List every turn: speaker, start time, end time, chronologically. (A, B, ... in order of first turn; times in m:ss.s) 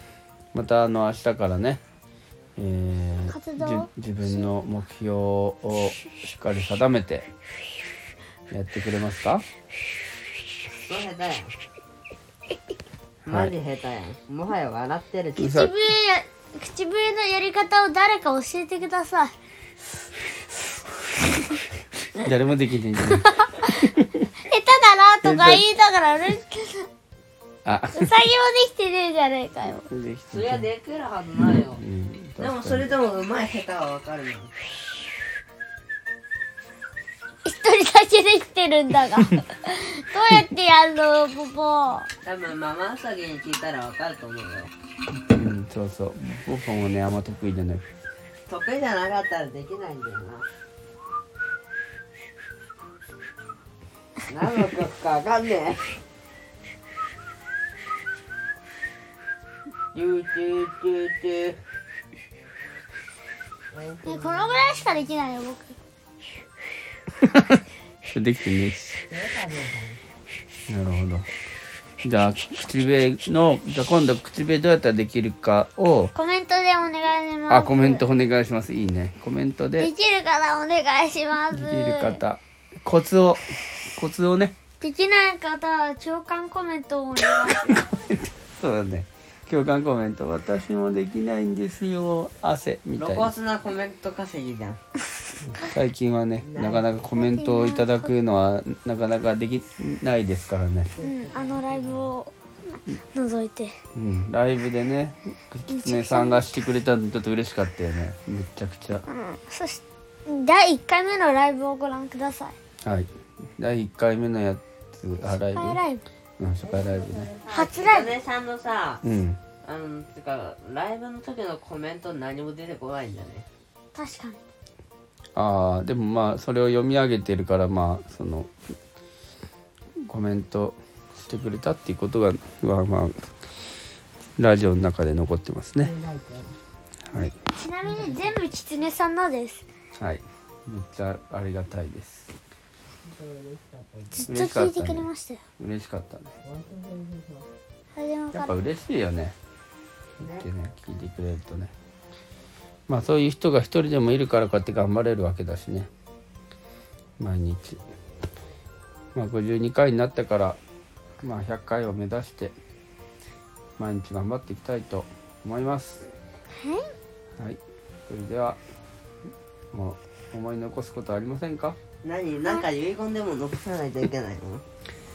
0:00.5-0:01.8 A
0:02.6-0:07.3 A
0:03.3-0:04.5 B
0:08.5-0:09.4 A
0:10.7-0:11.5 C
0:13.2-0:15.6 C
0:13.3-0:13.5 A
0:15.4-0:19.3 B
0:15.4-0:15.7 A
0:22.2-0:23.3 A
0:23.1-0:26.9 B
0:23.8-0:24.3 A
0:25.2-0:25.6 A
0:27.6-0:28.1 A
0:27.9-0:29.9 B
0:29.9-0:30.7 A
0:30.3-0:31.8 C
0:31.8-0:32.9 A
0:32.4-0:34.5 C
0:37.4-0:42.1 B
0:42.2-0:44.7 C
0:45.3-0:47.8 A
0:48.5-0:50.5 C
0:54.3-0:56.0 C
0:59.9-1:01.6 C
1:03.7-1:04.5 C
1:04.0-1:05.8 B
1:07.2-1:09.0 A
1:09.1-1:10.0 C
1:10.7-1:11.3 A
1:12.0-1:16.1 A
1:16.1-1:18.0 B
1:17.5-1:19.9 A
1:19.8-1:22.2 B
1:21.5-1:24.6 A
1:24.8-1:27.9 B
1:27.7-1:33.3 A
1:33.0-1:34.8 C
1:35.4-1:40.9 A
1:36.4-1:37.0 C
1:37.1-1:38.1 B
1:40.9-1:42.1 C
1:41.0-1:43.7 B
1:43.9-1:49.0 A
1:45.7-1:46.4 B
1:49.1-1:52.5 B
1:52.8-1:55.8 A
1:55.2-1:56.0 B
1:56.4-1:57.3 A
1:56.6-1:59.0 C
1:57.5-1:58.2 B
1:59.0-1:59.4 A
1:59.6-2:03.5 C
2:03.9-2:04.4 B
2:05.3-2:08.5 A
2:10.0-2:13.3 A
2:14.4-2:15.9 A
2:15.8-2:16.5 C
2:17.1-2:17.3 A
2:17.5-2:19.6 B
2:17.9-2:18.4 C
2:19.9-2:22.3 A
2:23.0-2:24.4 C
2:24.1-2:25.4 B
2:24.3-2:25.1 A
2:25.6-2:26.3 A
2:26.4-2:27.5 C
2:27.9-2:28.5 B
2:28.3-2:29.4 A
2:30.2-2:31.7 A
2:30.2-2:30.4 C
2:32.9-2:35.9 A
2:37.2-2:37.8 A
2:39.1-2:40.6 A
2:41.2-2:42.5 A
2:43.8-2:46.1 A
2:46.5-2:46.9 B
2:47.4-2:48.6 A
2:49.7-2:51.8 A
2:52.0-2:54.6 C